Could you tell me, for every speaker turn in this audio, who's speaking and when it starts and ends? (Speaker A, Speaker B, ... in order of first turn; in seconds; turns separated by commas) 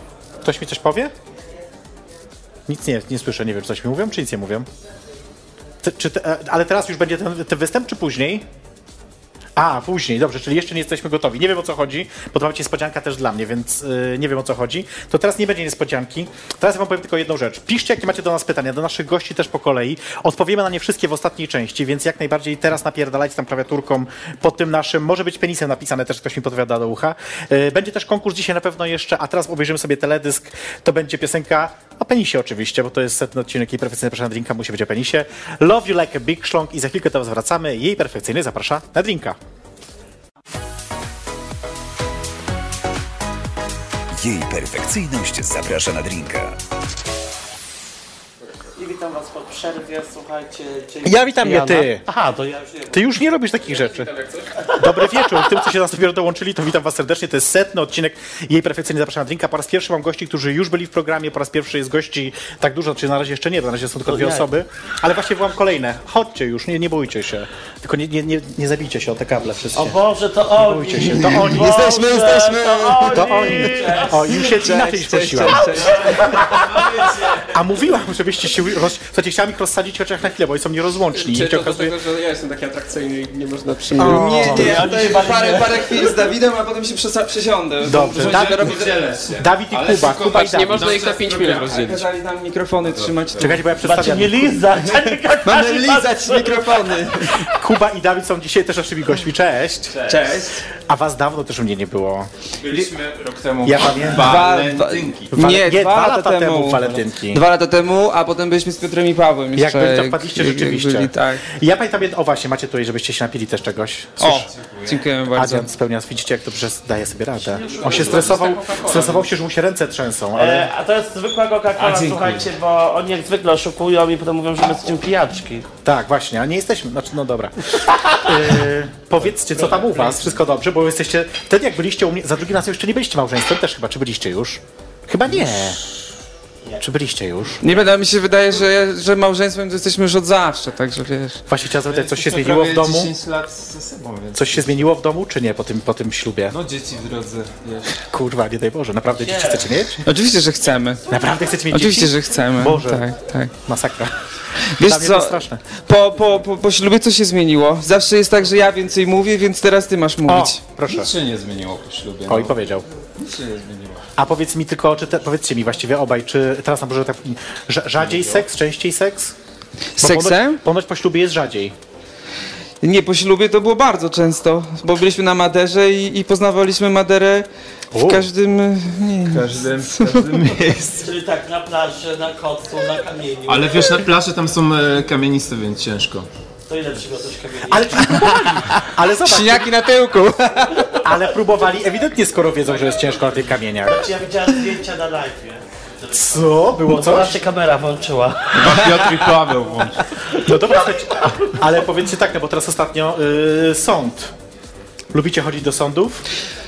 Speaker A: 0.4-1.1, Speaker A: 2.7-4.7, Speaker A: 5.8-8.4, Speaker A: 9.6-39.4, Speaker B: 44.1-46.5, Speaker C: 48.8-53.0, Speaker A: 51.0-52.0, Speaker A: 52.9-54.1, Speaker D: 53.6-54.6, Speaker A: 54.8-70.0, Speaker C: 64.1-64.5, Speaker C: 69.7-74.4, Speaker A: 70.5-71.7, Speaker E: 71.2-76.7, Speaker A: 73.1-76.1, Speaker C: 75.7-76.9, Speaker F: 76.7-77.4, Speaker A: 77.4-81.9, Speaker D: 81.1-84.7, Speaker E: 84.0-88.9, Speaker C: 84.0-86.1, Speaker A: 87.8-90.9, Speaker F: 88.1-91.9, Speaker D: 90.2-92.1, Speaker E: 91.6-93.6, Speaker F: 92.8-93.6, Speaker A: 93.4-94.6, Speaker C: 93.8-97.0, Speaker E: 95.4-97.4, Speaker A: 97.4-100.0, Speaker F: 99.9-100.3, Speaker E: 100.1-100.6, Speaker A: 100.7-102.9, Speaker F: 102.6-105.3, Speaker A: 103.6-104.5, Speaker E: 104.1-111.4, Speaker A: 105.3-107.4, Speaker A: 109.5-114.5, Speaker E: 114.2-115.7, Speaker F: 114.4-115.0, Speaker A: 115.3-120.7, Speaker D: 117.5-119.3, Speaker C: 117.8-118.4, Speaker C: 120.3-125.7, Speaker F: 121.8-122.5, Speaker A: 125.8-135.8, Speaker C: 128.0-128.2, Speaker D: 129.6-130.2, Speaker A: 136.8-137.6, Speaker E: 137.6-141.4, Speaker A: 141.5-143.1, Speaker F: 141.8-144.8, Speaker A: 144.3-146.5, Speaker F: 146.5-148.0, Speaker A: 148.0-150.0, Speaker C: 149.2-149.6, Speaker E: 150.0-151.0, Speaker A: 151.1-153.0, Speaker E: 151.7-153.5, Speaker A: 153.6-154.1, Speaker E: 154.7-160.6, Speaker A: 154.8-155.6, Speaker A: 160.3-161.1, Speaker F: 160.9-162.6, Speaker A: 162.3-162.8, Speaker F: 163.2-164.0, Speaker A: 164.2-169.3, Speaker F: 168.0-168.4, Speaker E: 170.0-170.6, Speaker A: 170.0-171.7, Speaker E: 172.8-180.8, Speaker A: 177.9-178.3, Speaker F: 179.3-181.0, Speaker C: 180.9-184.0, Speaker F: 183.4-186.3, Speaker C: 186.7-188.2, Speaker A: 187.7-189.8, Speaker E: 189.2-190.9, Speaker A: 191.0-194.1, Speaker C: 193.8-196.2, Speaker A: 196.1-197.3, Speaker C: 196.8-199.1, Speaker F: 198.6-200.0, Speaker A: 200.3-204.3, Speaker A: 205.1-206.2